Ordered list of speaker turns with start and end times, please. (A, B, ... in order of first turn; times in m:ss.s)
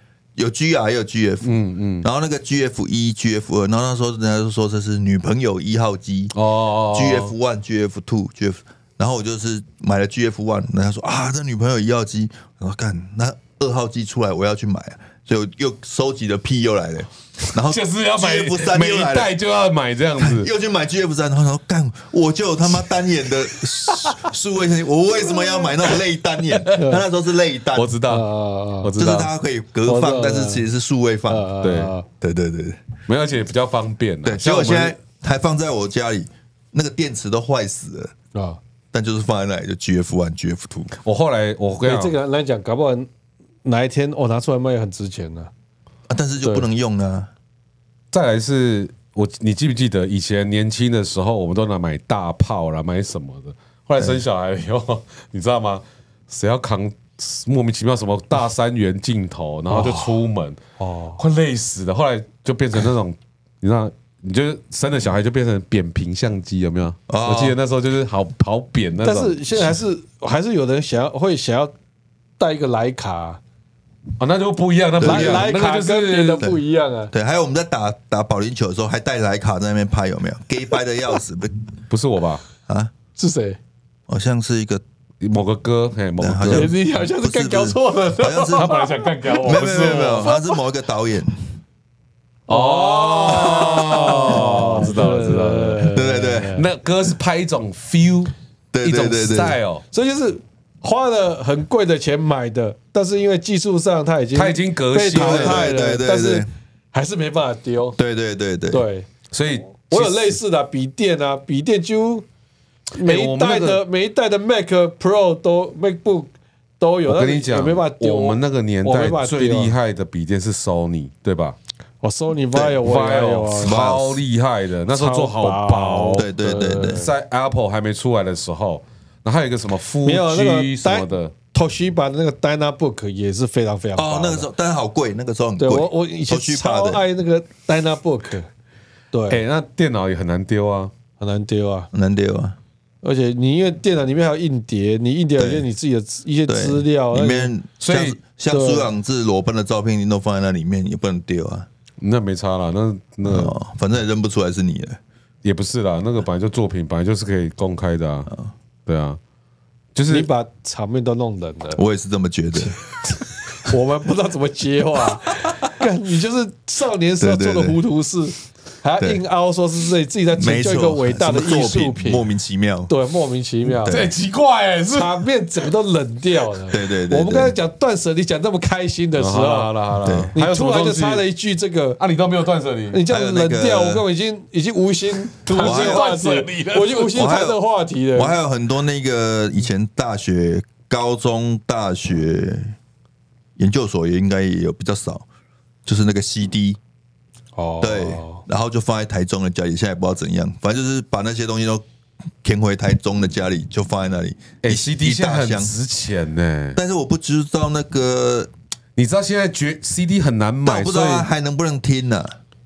0:00.4-0:06.3 A
0:01.4-0:02.1 B
0:06.3-0:07.3 B
0:06.9-0:19.3 A
0:17.6-0:20.5 B
0:20.2-0:27.9 A
0:26.8-0:27.0 C
0:27.7-0:28.2 B
0:28.1-0:28.9 C
0:28.8-0:29.3 B
0:29.0-0:31.5 A
0:29.8-0:30.7 C
0:31.3-0:32.0 C
0:31.6-0:31.9 B
0:32.2-0:32.8 A
0:33.1-0:35.0 B
0:34.2-0:38.1 A
0:38.9-0:40.9 A
0:41.0-0:42.1 B
0:41.8-0:43.1 C
0:43.6-0:45.5 C
0:46.1-0:47.3 A
0:46.4-0:46.6 C
0:48.1-1:00.6 B
0:59.7-1:00.2 C
1:00.8-1:01.2 C
1:01.2-1:09.4 B
1:07.1-1:07.6 A
1:09.0-1:11.7 C
1:12.4-1:13.4 C
1:14.2-1:16.5 B
1:15.0-1:15.5 A
1:15.0-1:17.1 C
1:16.4-1:21.5 A
1:21.9-1:22.4 B
1:23.2-1:23.6 C
1:24.1-1:24.8 A
1:25.2-1:26.7 B
1:26.2-1:28.7 A
1:26.5-1:30.6 C
1:28.6-1:30.3 B
1:29.4-1:31.5 A
1:32.5-1:36.6 C
1:32.5-1:39.8 B
1:33.3-1:34.4 A
1:35.9-1:36.6 A
1:38.7-1:39.6 A
1:39.9-1:48.0 C
1:44.3-1:45.7 B
1:45.1-1:46.5 A
1:48.0-1:48.8 A
1:48.7-1:49.1 C
1:49.3-1:50.4 B
1:49.7-1:52.2 C
1:53.0-1:59.7 C
1:53.0-1:53.8 B
1:57.1-2:01.6 B
2:02.0-2:03.8 C
2:02.8-2:06.3 B
2:03.6-2:04.2 A
2:04.9-2:07.1 C
2:06.1-2:07.0 A
2:06.9-2:11.3 B
2:10.0-2:14.5 C
2:14.0-2:17.0 A
2:15.6-2:18.5 C
2:19.1-2:19.4 C
2:19.3-2:20.9 B
2:21.2-2:21.9 C
2:21.9-2:22.6 A
2:23.0-2:27.5 C
2:25.4-2:25.6 A
2:26.5-2:31.7 A
2:27.8-2:28.2 B
2:28.5-2:28.9 C
2:32.0-2:33.5 B
2:33.2-2:35.0 A
2:35.4-2:38.3 B
2:38.8-2:39.2 B
2:39.9-2:40.3 B
2:40.1-2:41.8 C
2:41.7-2:42.8 A
2:43.6-2:52.2 C
2:47.2-2:47.8 A
2:50.3-2:52.9 A
2:52.9-2:54.0 C
2:53.7-2:54.1 A
2:53.8-2:55.2 B
2:54.9-2:59.7 C
2:56.7-2:57.6 A
2:59.2-3:01.2 B
3:00.0-3:00.3 A
3:00.3-3:02.0 C
3:02.0-3:03.0 B
3:02.9-3:08.3 C
3:03.1-3:04.0 A
3:05.4-3:07.3 B
3:05.6-3:06.0 A
3:07.1-3:07.6 A
3:08.1-3:12.7 A
3:13.6-3:15.2 A
3:15.8-3:16.8 A
3:17.6-3:18.4 C
3:17.8-3:21.8 A
3:22.4-3:25.7 A
3:24.6-3:26.8 B
3:26.8-3:28.5 A
3:29.0-3:31.3 B
3:30.6-3:32.4 A